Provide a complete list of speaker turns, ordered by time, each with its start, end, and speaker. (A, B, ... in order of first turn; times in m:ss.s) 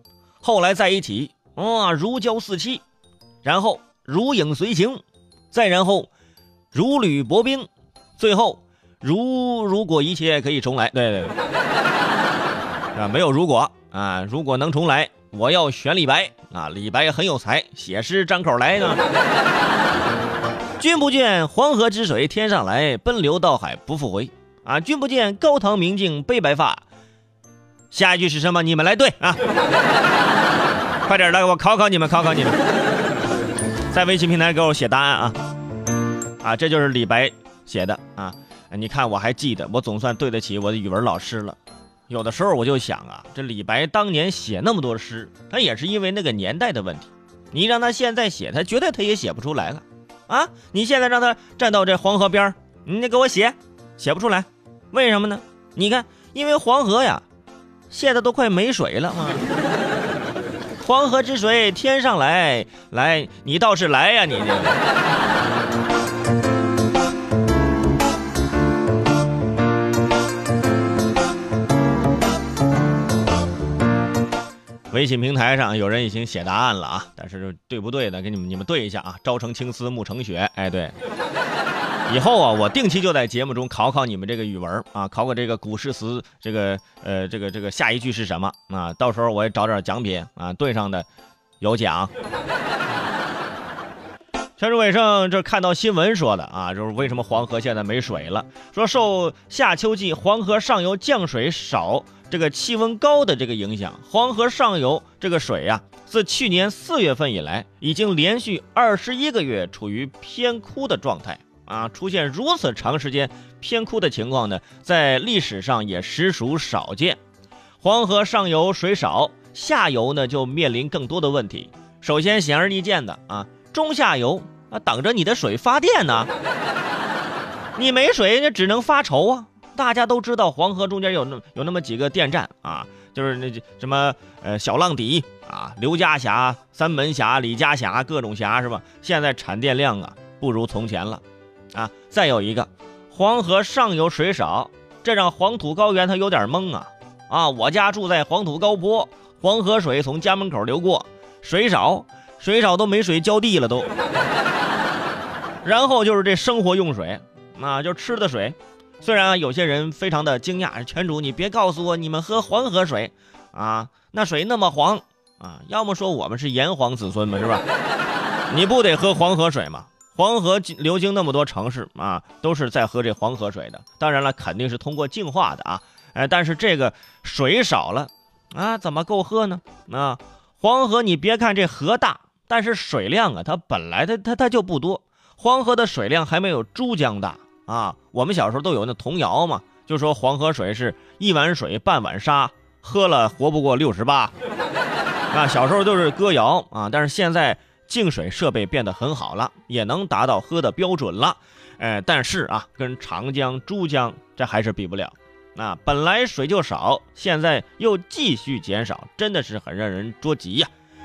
0:00.4-0:02.8 A
0:03.4-0:06.1 A
0:06.7-0:11.4 A
0:13.0-0:19.0 A
0:20.8-0:26.8 A
0:27.9-0:29.4 A
0:31.0-0:32.6 A
0:33.9-0:35.4 A
0:36.4-0:41.6 A
0:42.1-0:57.2 A
0:57.9-0:59.4 A
1:00.8-1:04.8 A
1:14.9-1:21.0 A
1:22.1-1:31.1 A
1:31.6-1:32.1 A
1:34.6-1:57.2 A
1:57.8-2:06.3 A
2:07.8-2:21.2 A
2:21.7-2:33.9 A
2:35.6-2:47.6 A
2:48.5-3:14.3 A
3:15.3-3:30.7 A